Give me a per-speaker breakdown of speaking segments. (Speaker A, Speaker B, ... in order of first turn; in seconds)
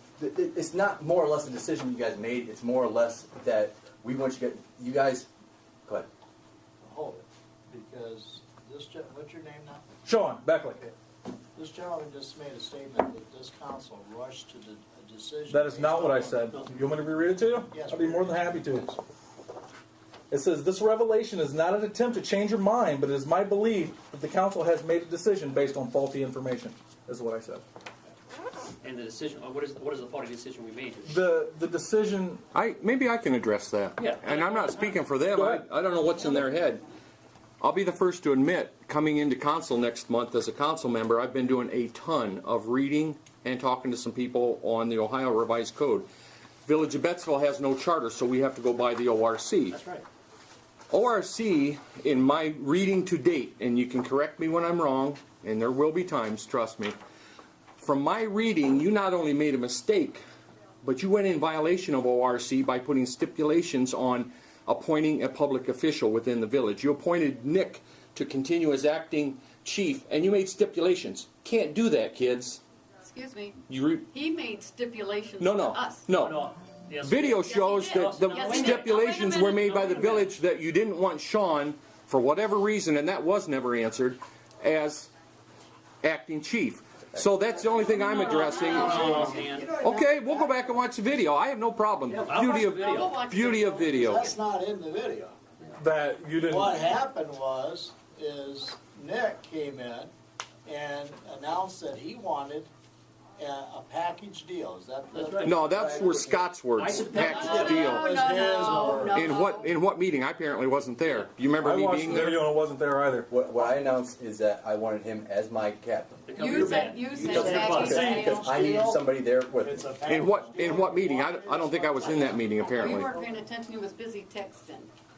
Speaker A: 0.2-5.3, 113.3-119.9
Speaker B: 6.8-9.8, 11.5-16.5, 17.7-19.0, 88.5-90.8, 93.9-95.3, 96.5-100.1, 100.6-102.7, 103.4-106.4, 107.1-109.3, 117.1-123.2
Speaker C: 10.0-10.8, 15.5-18.9, 20.3-27.6, 31.1-32.4, 35.3-35.7, 95.7-96.8, 111.5-113.3
Speaker D: 28.8-31.2, 34.0-35.1, 49.7-50.0, 76.1-80.3, 87.9-89.8, 92.1-93.2, 105.1-105.7, 106.6-107.8, 116.3-118.2
Speaker E: 32.5-36.8, 37.6-46.1, 46.6-49.8, 50.9-57.0, 57.8-60.2, 60.8-72.6, 73.7-74.0, 75.4-76.4, 77.0-85.1, 86.0-89.0, 89.8-94.3, 105.5-108.1, 109.1-112.5, 120.1-123.1
Speaker F: 73.0-76.1, 77.5-79.6, 87.8-89.3, 92.3-94.2, 107.2-109.7, 116.4-118.5, 122.8-124.9